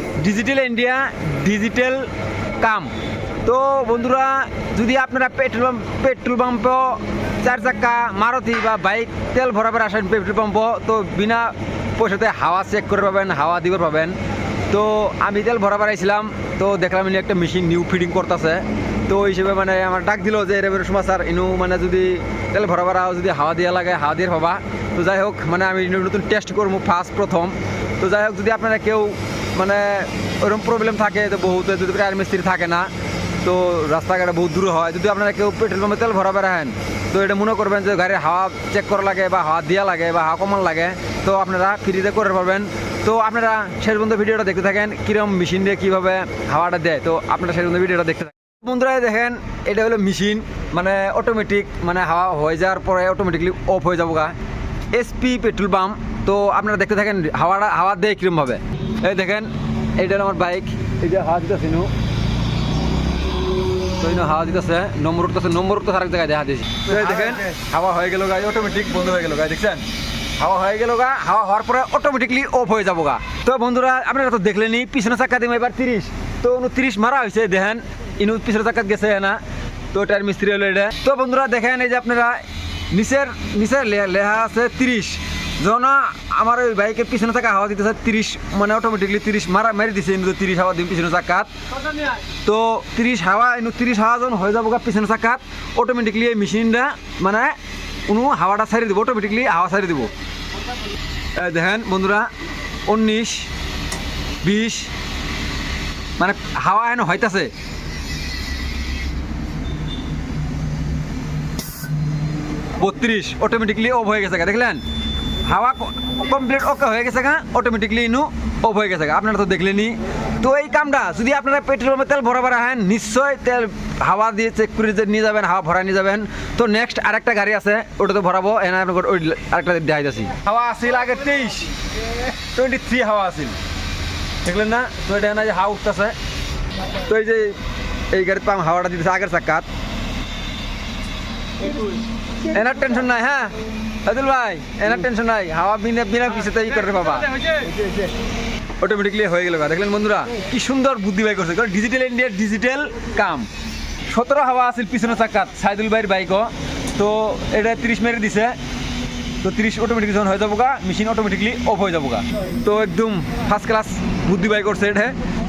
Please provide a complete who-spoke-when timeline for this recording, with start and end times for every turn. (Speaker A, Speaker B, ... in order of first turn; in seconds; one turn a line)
Speaker A: 0.2-2.9
Speaker A: 3.4-14.2
Speaker A: 14.7-54.4
Speaker A: 54.9-61.9
Speaker A: 64.0-69.9
Speaker A: 70.4-79.4
Speaker A: 79.9-100.1
Speaker A: 101.4-102.3
Speaker A: 102.9-103.5
Speaker A: 104.4-104.9
Speaker A: 106.2-107.5
Speaker A: 112.8-114.8
Speaker A: 115.4-131.7
Speaker A: 132.5-133.6
Speaker A: 134.4-136.2
Speaker A: 136.9-137.6
Speaker A: 138.1-139.7
Speaker A: 142.5-147.7
Speaker A: 148.8-153.5
Speaker A: 154.1-158.6
Speaker A: 159.4-165.2